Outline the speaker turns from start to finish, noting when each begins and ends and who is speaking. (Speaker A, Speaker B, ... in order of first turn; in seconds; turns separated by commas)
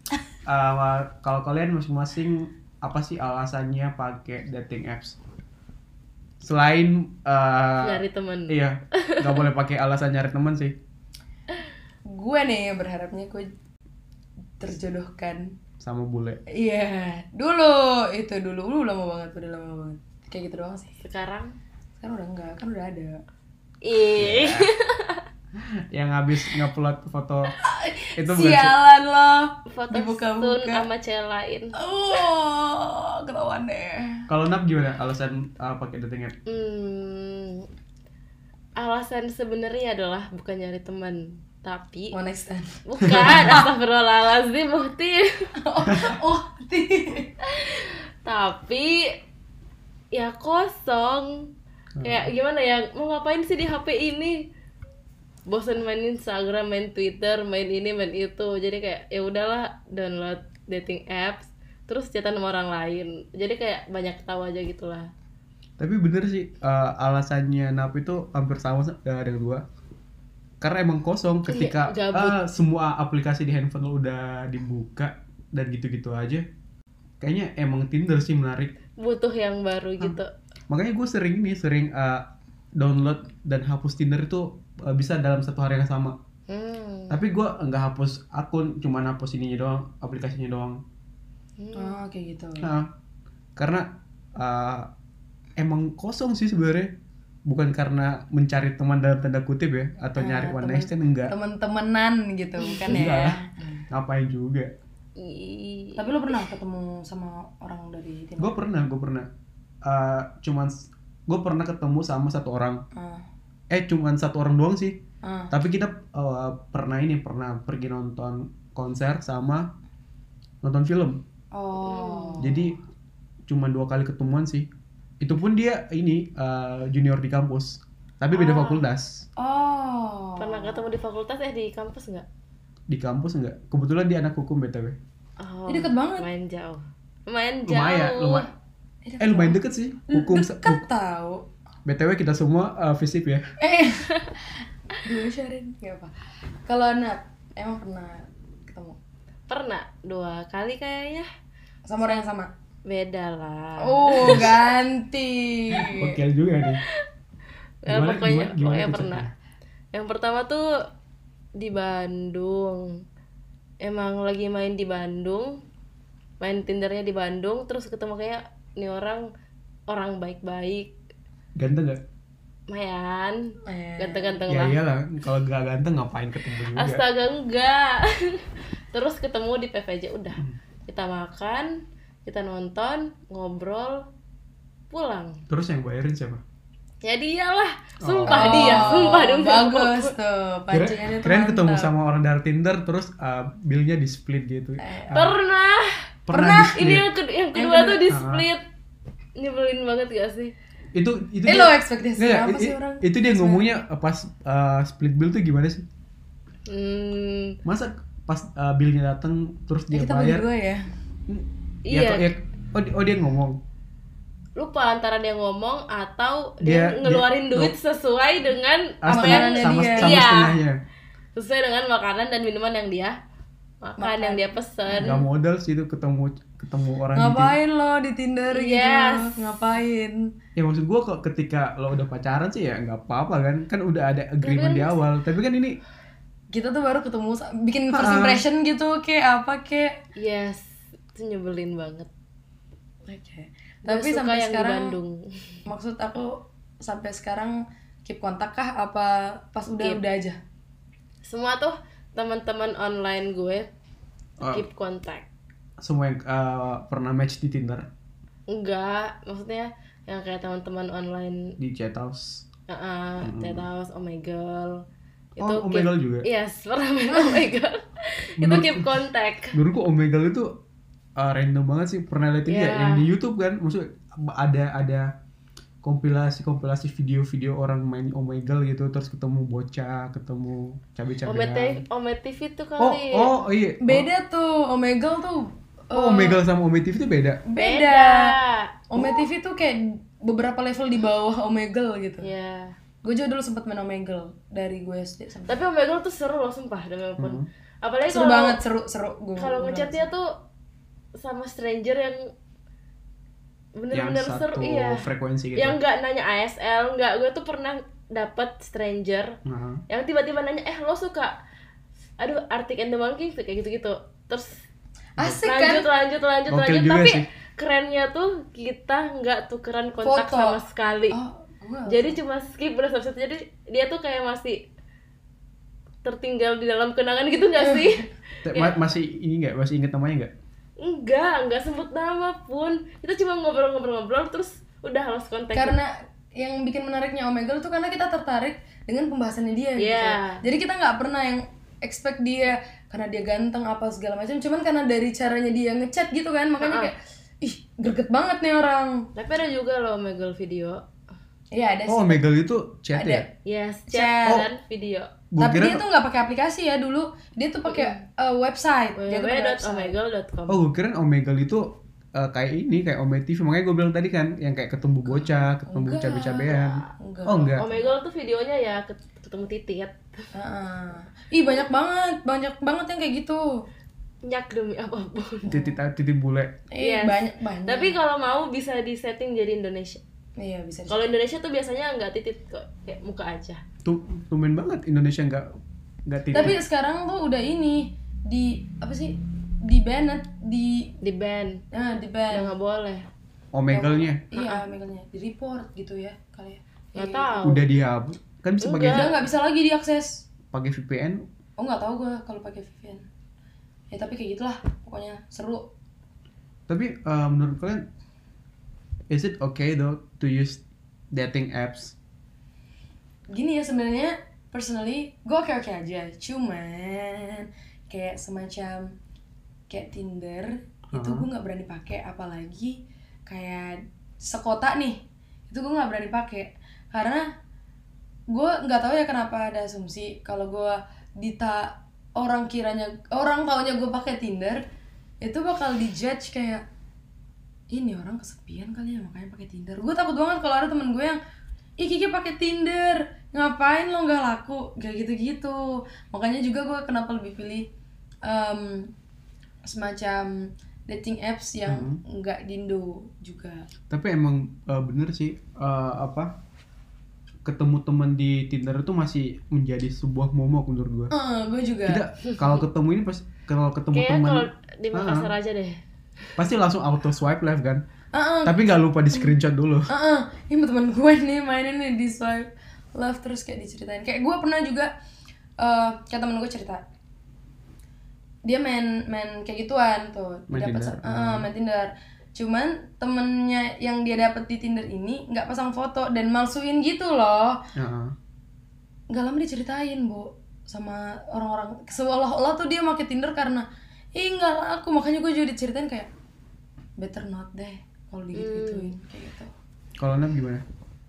Speaker A: 0.5-5.2, Speaker A: 6.4-10.8, Speaker B: 7.8-9.5, Speaker C: 12.1-13.5, Speaker C: 14.6-15.5, Speaker A: 15.8-16.4, Speaker C: 16.5-21.0, Speaker B: 21.0-21.6, Speaker C: 22.0-23.2, Speaker B: 23.8-25.2, Speaker A: 24.1-24.7, Speaker A: 25.6-27.5, Speaker C: 27.6-30.9, Speaker A: 28.2-28.8, Speaker B: 29.7-31.8, Speaker C: 31.8-34.3, Speaker A: 34.3-36.4, Speaker B: 36.5-37.7, Speaker B: 38.8-42.1, Speaker C: 42.1-42.8, Speaker B: 42.9-45.5, Speaker A: 43.0-43.7, Speaker C: 45.6-47.3, Speaker A: 45.9-46.2, Speaker B: 47.5-49.2, Speaker B: 50.1-51.5, Speaker A: 52.0-52.3, Speaker B: 52.0-54.5, Speaker B: 55.5-65.1, Speaker A: 65.8-69.6, Speaker A: 70.6-76.5, Speaker B: 71.5-72.4, Speaker A: 77.2-78.8, Speaker B: 79.0-80.3, Speaker A: 80.0-86.2, Speaker B: 86.5-87.2, Speaker A: 87.1-90.8, Speaker B: 91.6-92.0, Speaker C: 91.8-92.7, Speaker A: 92.6-92.9, Speaker A: 93.6-94.9, Speaker A: 95.6-96.9, Speaker A: 97.5-101.3, Speaker C: 100.2-103.8, Speaker A: 102.9-103.4, Speaker A: 103.9-104.7, Speaker B: 105.2-106.4, Speaker C: 106.0-108.6, Speaker A: 108.4-109.3, Speaker A: 109.8-112.8, Speaker C: 112.9-113.3, Speaker A: 113.7-115.0, Speaker C: 115.2-115.5, Speaker A: 115.5-119.7, Speaker A: 120.6-121.2, Speaker C: 121.5-122.7, Speaker B: 121.8-122.5, Speaker A: 122.4-122.8, Speaker A: 123.5-124.7, Speaker A: 125.2-129.3, Speaker C: 129.4-130.8, Speaker B: 130.4-132.3, Speaker A: 132.9-135.0, Speaker B: 135.4-138.4, Speaker C: 135.7-136.3, Speaker A: 137.7-138.5, Speaker C: 139.1-141.4, Speaker A: 139.2-140.8, Speaker A: 141.8-143.5, Speaker C: 143.6-144.3, Speaker C: 144.9-146.1, Speaker C: 146.7-149.0, Speaker B: 149.5-151.3, Speaker C: 151.9-152.5, Speaker B: 152.8-154.6, Speaker C: 153.8-156.2, Speaker A: 155.8-156.8, Speaker B: 157.8-159.3, Speaker A: 157.9-159.3, Speaker B: 159.9-160.8, Speaker B: 161.6-163.0, Speaker B: 163.8-165.6, Speaker B: 166.4-169.3, Speaker B: 169.9-170.9, Speaker A: 171.6-172.0, Speaker B: 172.7-174.8, Speaker C: 173.7-174.4, Speaker A: 174.5-177.0, Speaker B: 176.8-184.1, Speaker B: 184.9-185.4, Speaker A: 185.5-186.4, Speaker B: 187.0-190.1, Speaker A: 188.0-189.2, Speaker C: 188.3-191.9, Speaker A: 190.7-195.4, Speaker C: 194.8-195.2, Speaker B: 195.1-198.6, Speaker A: 196.3-197.1, Speaker C: 196.3-196.8, Speaker C: 197.6-198.1, Speaker A: 198.1-198.5, Speaker B: 199.4-200.5, Speaker A: 200.9-205.8, Speaker C: 201.5-203.8, Speaker B: 206.7-207.6, Speaker A: 207.7-210.4, Speaker C: 209.9-210.8, Speaker A: 211.3-213.6, Speaker B: 211.9-212.3, Speaker B: 214.6-220.6, Speaker A: 216.6-217.8, Speaker A: 219.0-220.8, Speaker C: 219.1-220.2, Speaker B: 221.4-223.2, Speaker B: 223.8-225.2, Speaker C: 224.0-225.2, Speaker A: 225.0-227.6, Speaker C: 227.2-230.3, Speaker B: 228.5-229.4, Speaker A: 230.6-235.8, Speaker B: 234.4-235.0, Speaker C: 236.5-239.9, Speaker A: 237.9-238.4, Speaker B: 240.2-240.6, Speaker B: 241.2-242.1, Speaker C: 243.1-244.9, Speaker B: 243.8-245.6, Speaker C: 245.7-250.4, Speaker B: 251.2-253.7, Speaker A: 254.4-254.7, Speaker B: 254.4-255.3, Speaker A: 255.8-257.9, Speaker B: 258.5-261.6, Speaker A: 261.6-262.5, Speaker B: 262.7-264.8, Speaker A: 263.2-263.7, Speaker B: 265.4-269.6, Speaker A: 265.4-266.3, Speaker A: 268.4-268.9, Speaker A: 269.5-270.6, Speaker A: 271.2-275.1, Speaker B: 272.5-273.1, Speaker A: 275.8-281.8, Speaker B: 281.3-283.3, Speaker A: 282.8-284.1, Speaker C: 283.8-286.4, Speaker A: 285.9-287.4, Speaker C: 287.5-288.4, Speaker B: 287.6-288.8, Speaker C: 288.9-292.3, Speaker B: 292.2-292.8, Speaker C: 293.0-295.7, Speaker B: 295.5-298.6, Speaker A: 297.2-297.5, Speaker C: 298.1-300.1, Speaker B: 299.4-300.4, Speaker B: 301.2-302.3, Speaker B: 303.8-305.1, Speaker A: 303.9-305.8, Speaker B: 305.6-309.4, Speaker A: 309.5-309.8, Speaker B: 309.9-311.4, Speaker B: 312.2-314.6, Speaker C: 315.2-315.9, Speaker B: 315.4-321.2, Speaker A: 316.5-317.3, Speaker C: 320.0-320.6, Speaker C: 321.1-322.2, Speaker B: 321.9-324.6, Speaker B: 326.0-328.8, Speaker C: 327.6-328.0, Speaker A: 328.4-330.3, Speaker B: 330.8-335.8, Speaker C: 335.5-349.1, Speaker B: 339.8-340.4, Speaker B: 346.6-346.9, Speaker B: 349.1-350.8, Speaker C: 351.5-352.2, Speaker A: 351.9-353.3, Speaker C: 352.9-353.3, Speaker B: 353.4-355.1, Speaker C: 353.9-354.5, Speaker A: 355.3-355.8, Speaker C: 355.4-360.0, Speaker B: 357.7-358.0, Speaker B: 359.0-360.6, Speaker A: 360.5-367.7, Speaker C: 365.1-367.9, Speaker B: 367.6-370.3, Speaker C: 370.3-373.6, Speaker B: 374.2-375.7, Speaker A: 375.5-376.6, Speaker C: 376.7-378.0, Speaker B: 376.8-380.0, Speaker C: 380.4-381.1, Speaker B: 380.9-383.6, Speaker A: 383.8-385.5, Speaker A: 386.1-386.6, Speaker C: 386.3-390.9, Speaker B: 391.0-391.6, Speaker C: 391.7-392.5, Speaker B: 392.3-393.1, Speaker A: 393.5-394.2, Speaker C: 393.7-397.4, Speaker B: 394.3-394.6, Speaker B: 396.9-397.6, Speaker A: 397.4-399.2, Speaker B: 398.6-399.2, Speaker C: 398.9-400.3, Speaker A: 400.5-401.2, Speaker C: 401.6-403.1, Speaker C: 403.9-405.7, Speaker A: 406.7-407.9, Speaker A: 409.1-412.0, Speaker C: 413.3-418.9, Speaker C: 419.7-427.3, Speaker A: 420.9-421.3, Speaker C: 428.3-434.6, Speaker C: 435.2-436.6, Speaker C: 437.7-441.2, Speaker C: 441.8-447.7, Speaker C: 448.2-448.9, Speaker C: 449.6-453.7, Speaker A: 451.7-452.0, Speaker A: 453.9-456.4, Speaker A: 457.4-461.1, Speaker C: 461.1-462.0, Speaker A: 461.9-465.3, Speaker B: 463.9-465.8, Speaker A: 466.4-467.8, Speaker C: 468.1-469.3, Speaker A: 468.4-469.9, Speaker C: 469.9-474.9, Speaker C: 475.6-476.8, Speaker C: 478.4-487.6, Speaker A: 480.5-481.5, Speaker A: 487.8-488.1, Speaker C: 489.1-496.1, Speaker C: 497.0-499.5, Speaker B: 498.4-498.9, Speaker A: 500.0-500.6